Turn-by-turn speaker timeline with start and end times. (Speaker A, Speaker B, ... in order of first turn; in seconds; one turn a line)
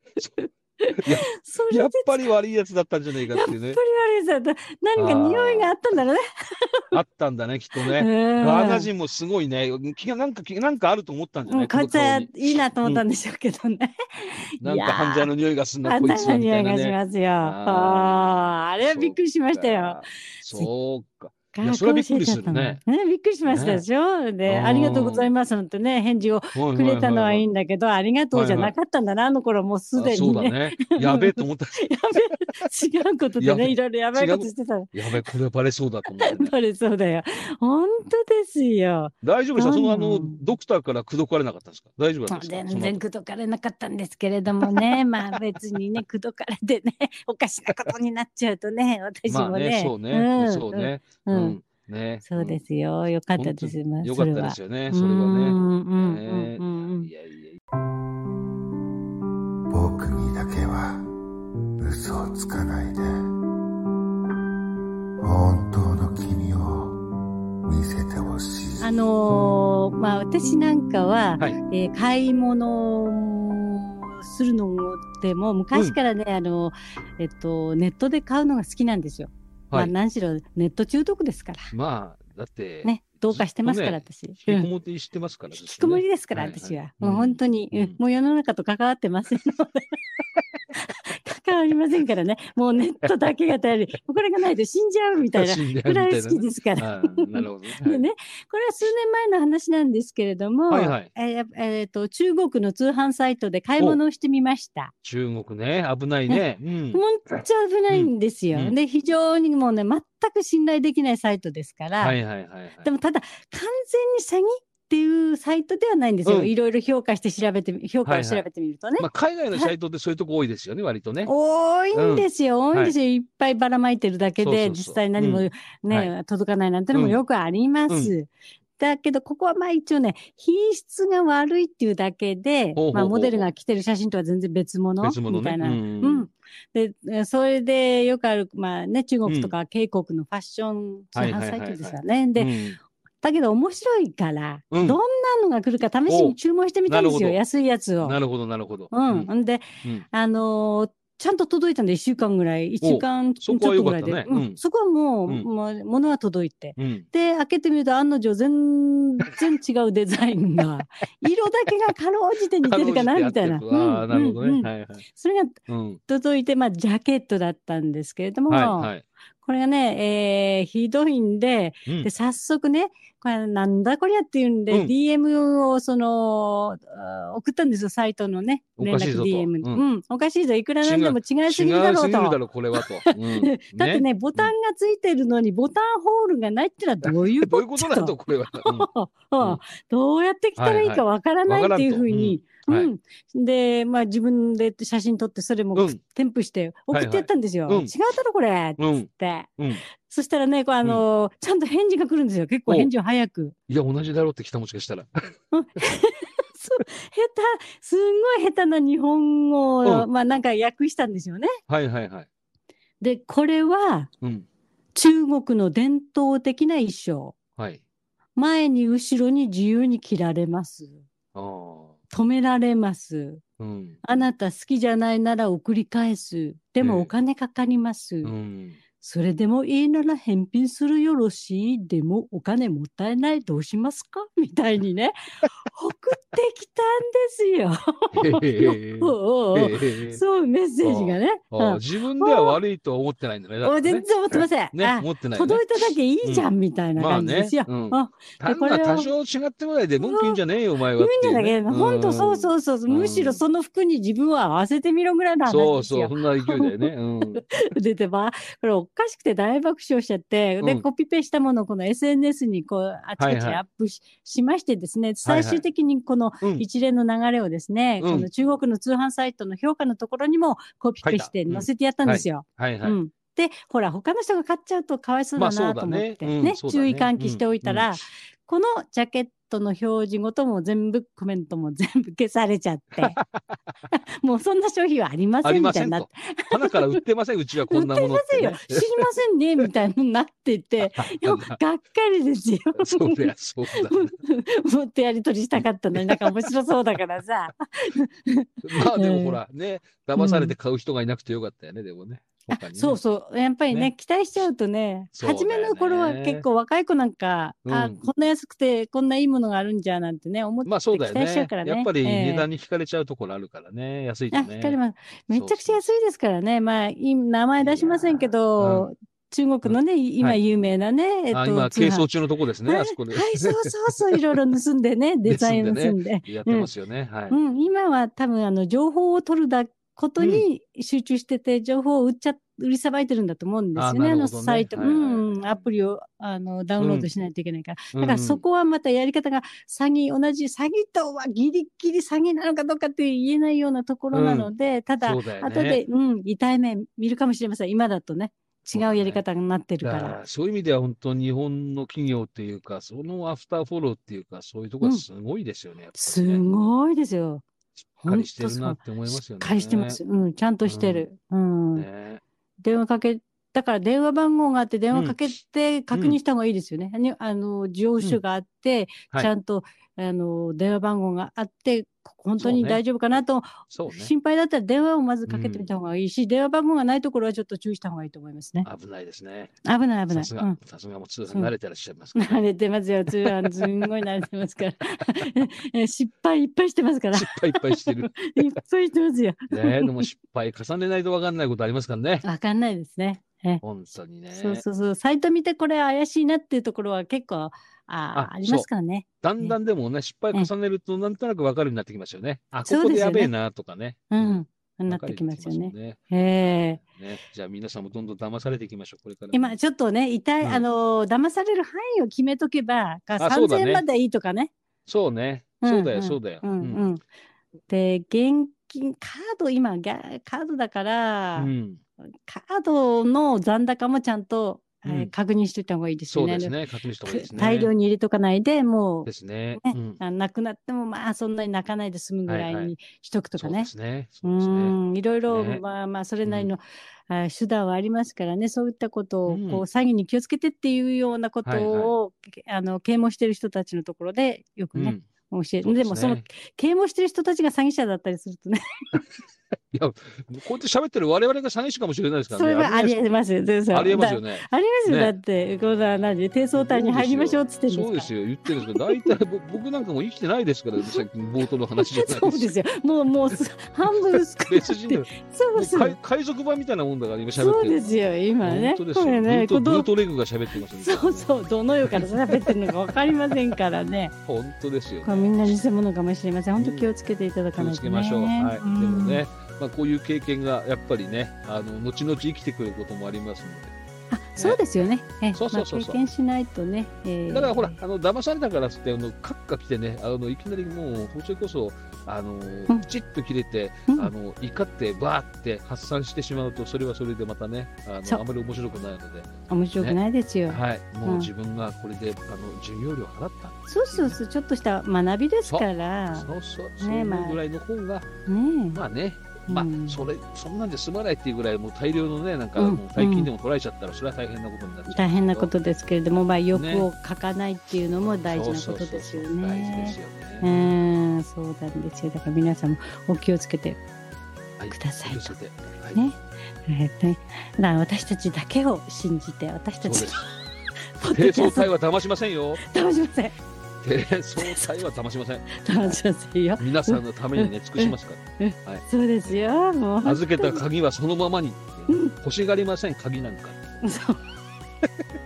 Speaker A: 0.4-2.2
Speaker B: 1.0-3.8
Speaker A: 3.3-6.9
Speaker B: 5.0-5.7
Speaker B: 6.9-12.3
Speaker A: 7.8-8.9
Speaker A: 11.5-15.3
Speaker B: 14.6-22.8
Speaker A: 15.8-20.7
Speaker A: 21.5-34.9
Speaker B: 23.5-23.8
Speaker B: 24.5-25.3
Speaker B: 26.6-27.4
Speaker B: 28.3-28.8
Speaker B: 29.9-31.9
Speaker B: 33.4-36.5
Speaker A: 36.2-40.4
Speaker B: 39.2-43.0
Speaker A: 42.3-51.6
Speaker B: 44.6-45.4
Speaker B: 49.3-52.6
Speaker A: 52.2-57.1
Speaker B: 53.4-57.6
Speaker C: 59.7-61.0
Speaker C: 61.8-63.2
Speaker C: 65.2-67.0
Speaker C: 67.7-68.9
Speaker A: 68.8-81.7
Speaker B: 81.7-88.0
Speaker A: 82.8-84.7
Speaker A: 85.6-89.9
Speaker A: 90.7-104.9
Speaker B: 95.3-98.0
Speaker B: 100.7-101.1
Speaker B: 105.0-107.0
Speaker A: 106.9-112.2
Speaker B: 107.9-108.8
Speaker B: 112.0-112.9
Speaker A: 112.8-119.7
Speaker B: 116.3-116.5
Speaker B: 118.0-121.3
Speaker A: 121.3-142.5
Speaker B: 121.9-123.0
Speaker B: 124.4-126.1
Speaker B: 126.9-127.2
Speaker B: 132.8-133.4
Speaker B: 135.0-136.3
Speaker B: 139.3-139.5
Speaker B: 141.2-142.8
Speaker A: 143.2-148.2
Speaker B: 144.7-145.0
Speaker B: 146.1-146.4
Speaker B: 146.9-147.4
Speaker B: 148.0-149.3
Speaker A: 148.9-165.6
Speaker B: 152.8-154.6
Speaker B: 156.8-157.1
Speaker B: 162.6-165.1
Speaker B: 165.7-166.0
Speaker A: 166.1-203.6
Speaker B: 168.5-169.0
Speaker B: 178.8-179.8
Speaker B: 180.8-184.5
Speaker B: 187.0-188.9
Speaker B: 190.6-192.9
Speaker B: 195.8-196.0
Speaker B: 196.9-197.9
Speaker B: 198.8-199.8
Speaker B: 203.7-205.3
Speaker A: 205.5-211.5
Speaker B: 211.7-212.3
Speaker A: 213.0-214.1
Speaker A: 214.9-217.4
Speaker A: 218.4-221.0
Speaker B: 221.3-222.0
Speaker A: 222.1-223.4
Speaker B: 223.6-224.0
Speaker A: 224.0-228.3
Speaker B: 226.8-227.1
Speaker B: 228.2-228.8
Speaker A: 229.0-242.6
Speaker B: 238.1-240.2
Speaker B: 240.8-245.6
Speaker A: 243.6-249.1
Speaker B: 246.2-253.4
Speaker A: 250.0-250.4
Speaker A: 251.0-283.2
Speaker B: 255.5-257.4
Speaker B: 263.2-263.6
Speaker B: 265.2-265.6
Speaker B: 268.0-268.3
Speaker B: 271.0-273.0
Speaker B: 275.4-278.0
Speaker B: 283.0-283.4
Speaker A: 283.9-287.0
Speaker B: 285.4-289.0
Speaker A: 287.7-299.4
Speaker B: 290.8-291.6
Speaker B: 292.8-294.1
Speaker B: 295.9-296.5
Speaker B: 298.6-303.0
Speaker A: 300.2-300.6
Speaker A: 302.5-312.5
Speaker B: 305.2-306.4
Speaker B: 307.6-308.1
Speaker B: 310.6-314.8
Speaker A: 314.3-322.1
Speaker B: 315.3-315.8
Speaker B: 317.6-318.9
Speaker B: 319.6-320.4
Speaker B: 321.3-324.4
Speaker A: 322.7-326.7
Speaker B: 325.3-327.4
Speaker A: 327.3-350.2
Speaker B: 330.2-330.4
Speaker B: 333.8-335.6
Speaker B: 336.8-337.1
Speaker B: 337.9-338.4
Speaker B: 344.1-344.5
Speaker B: 345.1-345.8
Speaker B: 348.8-349.2
Speaker B: 349.8-356.5
Speaker A: 356.0-357.4
Speaker A: 358.0-361.9
Speaker B: 358.1-360.0
Speaker B: 360.6-361.1
Speaker B: 361.8-362.2
Speaker A: 362.6-378.7
Speaker B: 365.9-366.2
Speaker B: 372.4-372.8
Speaker B: 373.7-374.1
Speaker B: 375.3-375.7
Speaker B: 378.6-379.5
Speaker A: 379.6-380.6
Speaker B: 380.1-382.4
Speaker A: 382.1-390.1
Speaker B: 383.2-383.9
Speaker B: 387.1-388.4
Speaker B: 389.5-392.2
Speaker A: 392.2-393.6
Speaker B: 393.6-394.6
Speaker A: 394.3-399.6
Speaker B: 398.1-398.7
Speaker B: 399.2-406.0
Speaker A: 402.7-403.3
Speaker A: 404.1-406.8
Speaker B: 406.8-409.5
Speaker A: 409.3-414.5
Speaker B: 413.2-413.8
Speaker B: 414.9-416.8
Speaker A: 415.6-417.0
Speaker A: 417.7-421.5
Speaker B: 421.4-421.8
Speaker A: 422.3-426.5
Speaker B: 424.9-425.1
Speaker B: 426.1-427.7
Speaker A: 427.1-433.7
Speaker B: 429.1-430.0
Speaker B: 432.3-432.8
Speaker B: 433.4-434.8
Speaker A: 434.2-448.6
Speaker B: 435.3-435.6
Speaker B: 436.2-436.5
Speaker B: 439.3-439.6
Speaker B: 441.4-441.9
Speaker B: 444.8-445.0
Speaker B: 445.6-446.2
Speaker B: 449.7-453.0
Speaker A: 452.3-459.1
Speaker B: 453.7-455.1
Speaker B: 456.6-462.5
Speaker A: 461.8-466.0
Speaker B: 464.1-471.3
Speaker A: 467.4-469.9
Speaker A: 470.8-474.1
Speaker B: 471.8-472.6
Speaker B: 474.3-475.3
Speaker A: 475.0-479.2
Speaker B: 476.6-476.9
Speaker B: 477.6-483.7
Speaker A: 484.1-487.8
Speaker B: 484.4-484.6
Speaker B: 485.3-486.0
Speaker B: 487.3-504.2
Speaker A: 499.5-501.3
Speaker A: 503.7-506.3
Speaker B: 505.4-508.1
Speaker A: 506.8-507.4
Speaker A: 508.3-508.8
Speaker B: 508.7-515.5
Speaker A: 509.5-510.1
Speaker A: 512.6-513.3
Speaker A: 514.9-523.8
Speaker B: 516.5-516.9
Speaker B: 518.3-520.7
Speaker B: 524.6-526.0
Speaker A: 524.7-525.4
Speaker A: 525.9-530.3
Speaker B: 529.8-530.2
Speaker A: 531.0-531.7
Speaker B: 531.1-532.6
Speaker A: 532.6-533.4
Speaker B: 533.8-536.0
Speaker A: 534.4-534.8
Speaker A: 535.5-540.6
Speaker B: 536.6-539.4
Speaker B: 540.0-543.6
Speaker A: 543.8-544.2